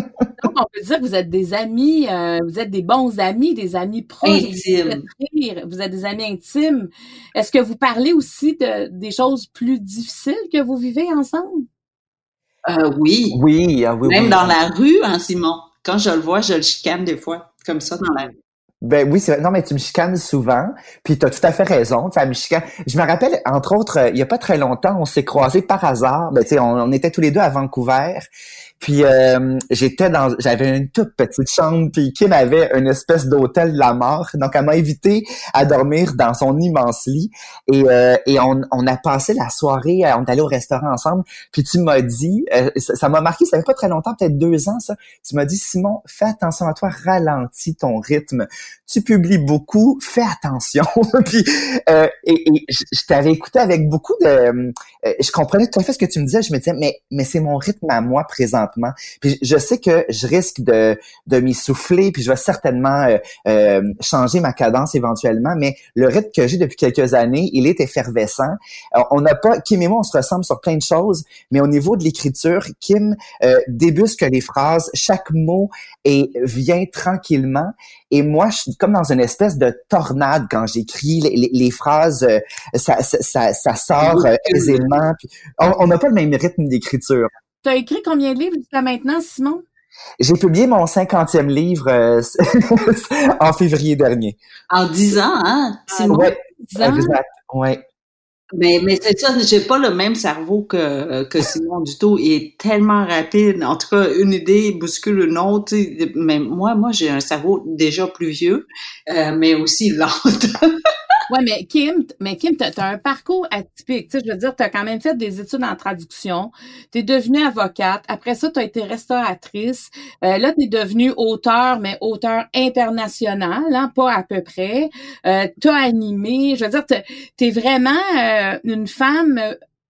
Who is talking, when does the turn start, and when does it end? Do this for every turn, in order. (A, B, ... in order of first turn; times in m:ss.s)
0:00.4-0:11.6 A
0:04.2-0:05.0 B
0:12.6-0:13.4 B
0:13.3-0:14.5 C
0:14.0-0:18.3 B
0:18.8-0:28.2 C
0:28.8-1:27.3 C
1:24.0-1:24.8 B
1:27.6-1:29.6 A
1:30.2-1:34.4 C
1:34.7-1:36.3 B
1:35.9-1:37.2 A
1:36.1-1:37.8 C
1:38.6-1:50.8 B
1:51.3-2:09.5 A